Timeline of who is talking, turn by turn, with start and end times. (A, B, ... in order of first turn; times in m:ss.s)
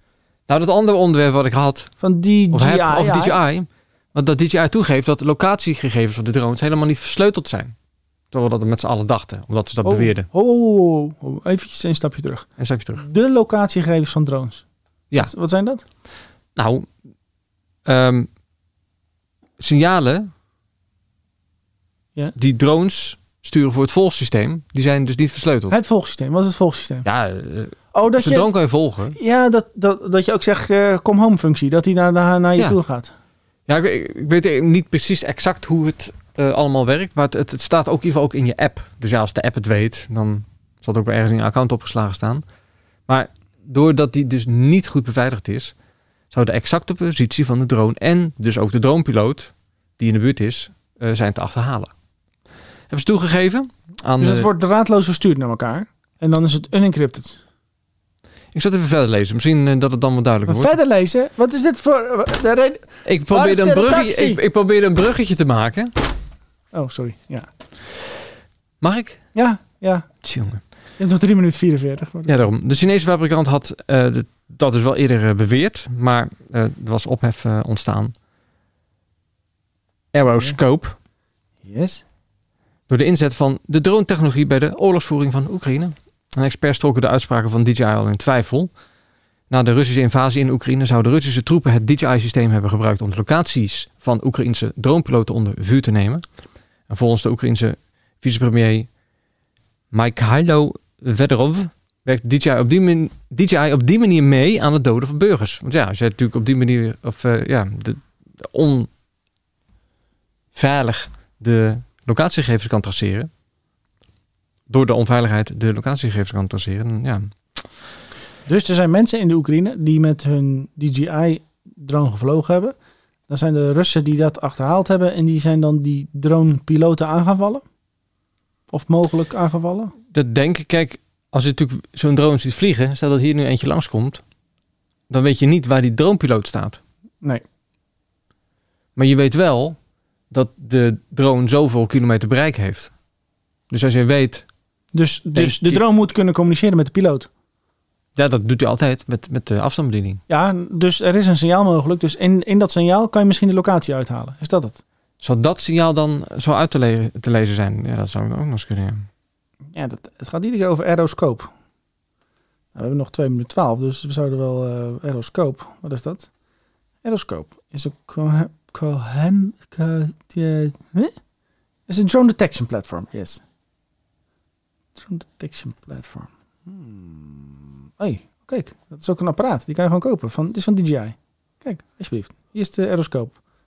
0:00.5-0:01.9 A
0:02.0-0:03.4 B
0:02.5-0:07.8 A
0:08.3-0:10.3 A
0:09.8-0:12.5 B
0:12.6-0:13.0 A
0:13.0-0:14.6 B
0:15.2-0:15.8 B
0:16.6-0:16.9 A
0:17.8-0:18.3 A
0:19.6-0:20.3 A
0:22.4-0:25.8 A
0:25.7-0:27.1 B
0:27.0-0:29.2 A
0:27.9-0:28.5 B
0:29.2-0:33.1 B
0:33.7-0:42.4 A
0:43.1-0:45.7 A
0:46.3-0:51.9 A
0:52.9-0:54.5 A
0:54.2-0:57.4 B
0:58.5-1:00.7 A
1:00.5-1:04.4 B
1:03.0-1:05.9 A
1:06.7-1:07.5 B
1:08.8-1:09.2 A
1:09.3-1:10.1 B
1:10.2-1:10.6 A
1:11.0-1:12.5 B
1:12.3-1:18.1 A
1:20.1-1:21.0 A
1:21.6-1:22.0 B
1:22.9-1:28.7 A
1:29.5-1:36.2 A
1:36.9-1:38.9 A
1:39.9-1:48.9 A
1:50.5-1:53.3 A
1:54.7-1:57.3 A
1:58.5-2:02.8 B
2:03.3-2:07.6 B
2:08.7-2:09.9 B
2:10.1-2:14.2 A
2:15.1-2:16.8 A
2:19.0-2:19.8 A
2:20.3-2:22.9 A
2:23.7-2:24.5 A
2:24.9-2:27.3 B
2:25.3-2:25.8 A
2:28.2-2:30.2 A
2:30.3-2:34.8 B
2:35.2-2:39.1 A
2:39.7-2:41.5 B
2:42.8-2:46.3 B
2:47.0-2:51.1 B
2:51.9-2:53.4 B
2:55.0-3:03.4 B